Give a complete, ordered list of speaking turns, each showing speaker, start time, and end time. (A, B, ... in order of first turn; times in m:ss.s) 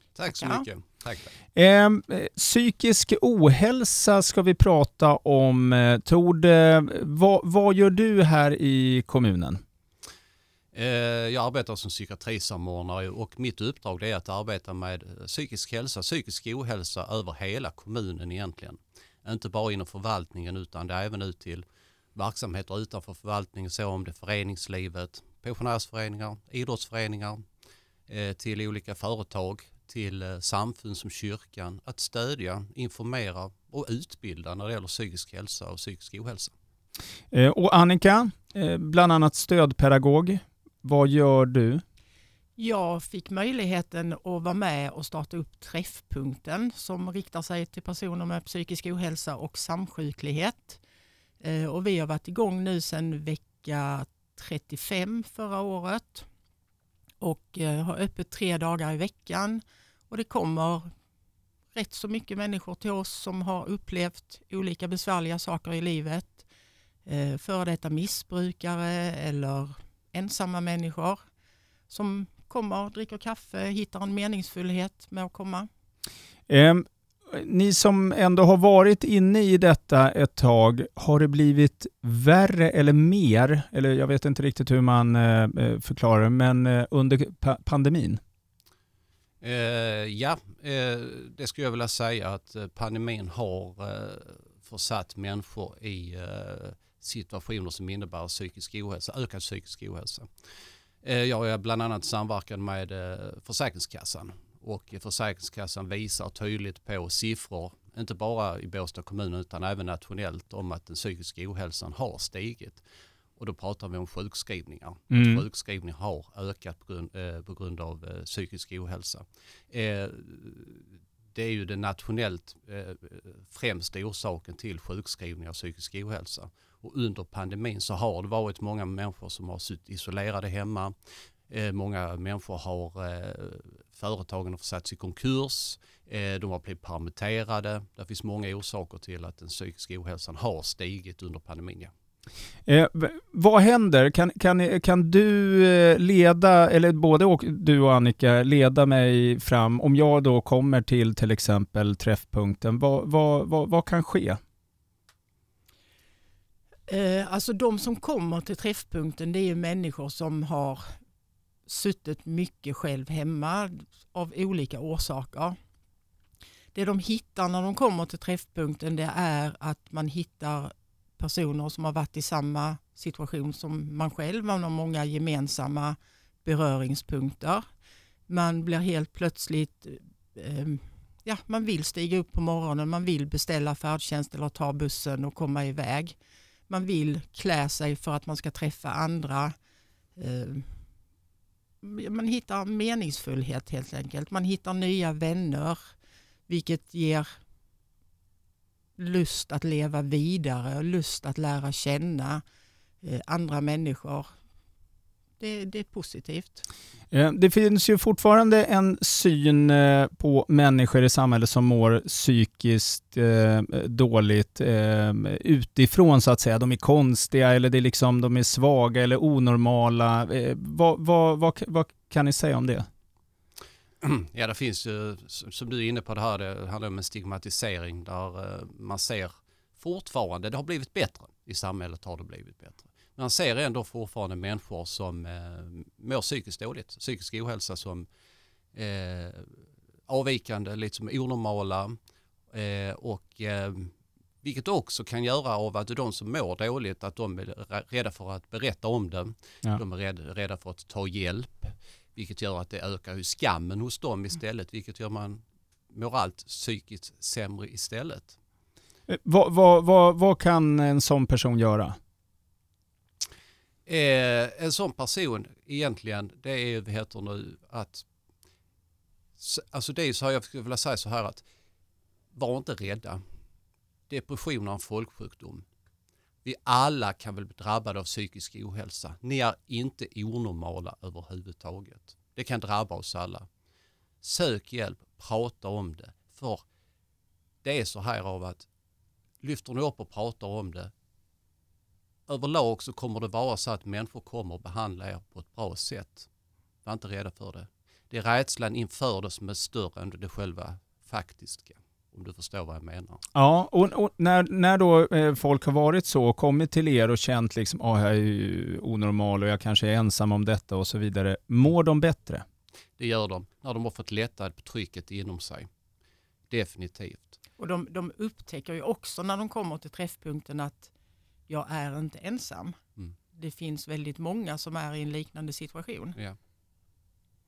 0:00.2-0:01.3 A
0:00.3-0:00.6 B
0:01.6-0:09.6 C
0:10.7-0:21.6 A
0:22.2-0:27.4 A
0:28.1-0:36.5 A
0:37.3-0:41.8 C
0:42.6-0:50.8 B
0:51.4-0:56.2 B
0:57.2-1:00.9 B
1:01.7-1:06.4 B
1:07.1-1:11.2 B
1:11.9-1:15.7 B
1:16.5-1:28.2 C
1:29.4-1:40.3 A
1:41.0-1:52.8 A
1:53.4-2:10.9 A
1:55.1-1:55.4 C
2:11.5-2:21.9 A
2:22.7-2:34.4 C
2:36.9-2:40.8 B
2:41.7-2:45.6 B
2:46.7-2:57.6 B
2:58.3-3:06.2 B
3:06.7-3:09.5 B
3:10.2-3:10.8 B
3:11.8-3:15.9 B
3:16.5-3:17.3 B
3:19.0-3:22.4 B
3:23.0-3:24.2 B
3:25.4-3:26.6 B
3:27.1-3:42.9 C
3:44.0-3:58.1 A
3:58.7-4:02.0 A
4:02.5-4:18.4 A
4:19.1-4:22.0 C
4:23.8-4:28.1 A
4:29.4-4:31.4 A
4:32.3-4:33.2 A
4:34.1-4:35.6 A
4:36.4-4:43.4 A
4:44.2-4:46.6 A
4:47.6-4:48.7 A
4:49.4-4:50.9 A
4:52.3-4:56.3 A
4:56.8-5:03.2 A
5:03.3-5:12.4 C
5:13.0-5:15.7 A
5:16.5-5:17.4 A
5:17.6-5:20.9 B
5:21.5-5:22.8 B
5:23.3-5:26.2 B